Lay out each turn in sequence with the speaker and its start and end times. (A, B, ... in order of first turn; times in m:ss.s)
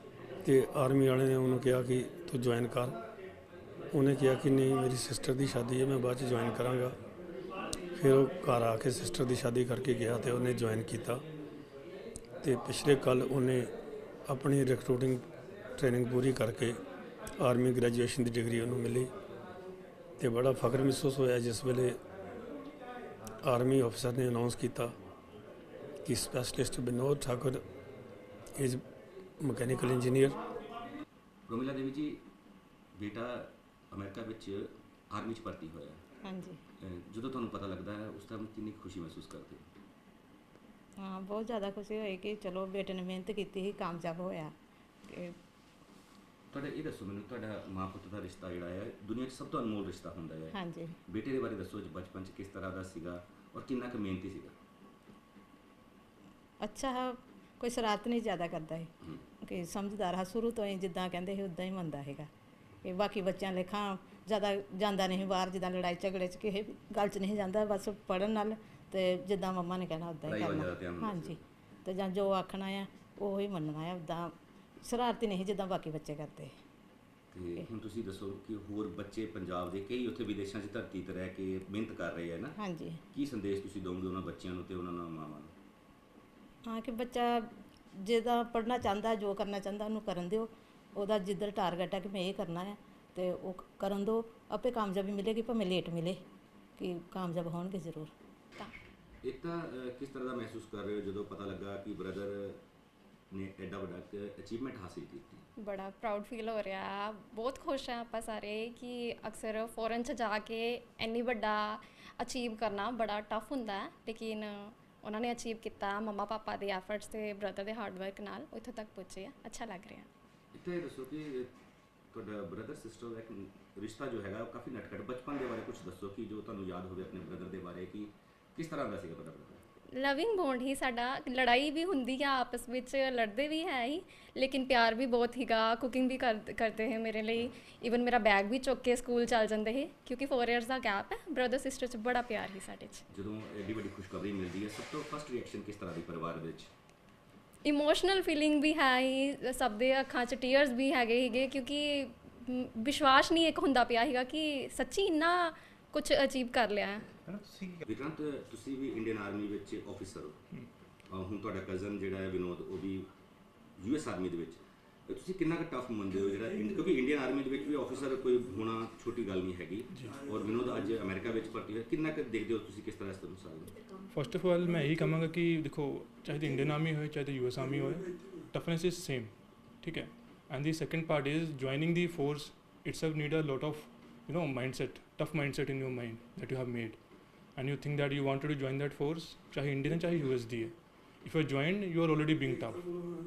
0:00.4-0:03.0 A
0:03.9-0:06.9 A
0:08.0-0:11.2 A
0:12.4-0:13.7 A
0:14.3-0:15.2 A
0:15.8-0:16.8 A
0:17.4-0:19.1 A
0:20.2-0:22.0 A
0:23.4-0:24.9 A
0:26.0-0:27.6 A
0:28.6-0:28.8 A
0:29.4-0:30.4 A
0:31.5-0:32.2 B
0:33.0-0:36.0 B
0:36.2-0:36.6 C
0:36.8-0:39.7 B
0:41.0-0:44.5 C
0:45.1-0:45.3 C
0:46.5-0:50.6 B
0:50.5-0:50.9 C
0:51.1-0:54.5 B
0:56.6-0:58.9 C
0:59.4-1:02.3 C
1:02.8-1:14.3 C
1:10.2-1:11.4 B
1:14.8-1:16.5 C
1:17.3-1:22.5 B
1:22.6-1:23.0 C
1:23.1-1:25.5 B
1:26.7-1:27.5 C
1:28.0-1:36.2 C
1:36.8-1:38.1 C
1:39.2-1:42.6 B
1:43.3-1:45.4 B
1:45.6-2:00.1 D
2:00.5-2:01.5 B
2:02.1-2:09.6 B
2:09.9-2:23.0 D
2:23.1-2:26.7 B
2:27.6-2:37.1 D
2:37.8-2:40.4 B
2:41.1-2:43.1 B
2:43.8-2:53.7 B
2:49.9-2:50.2 E
2:54.1-3:12.9 E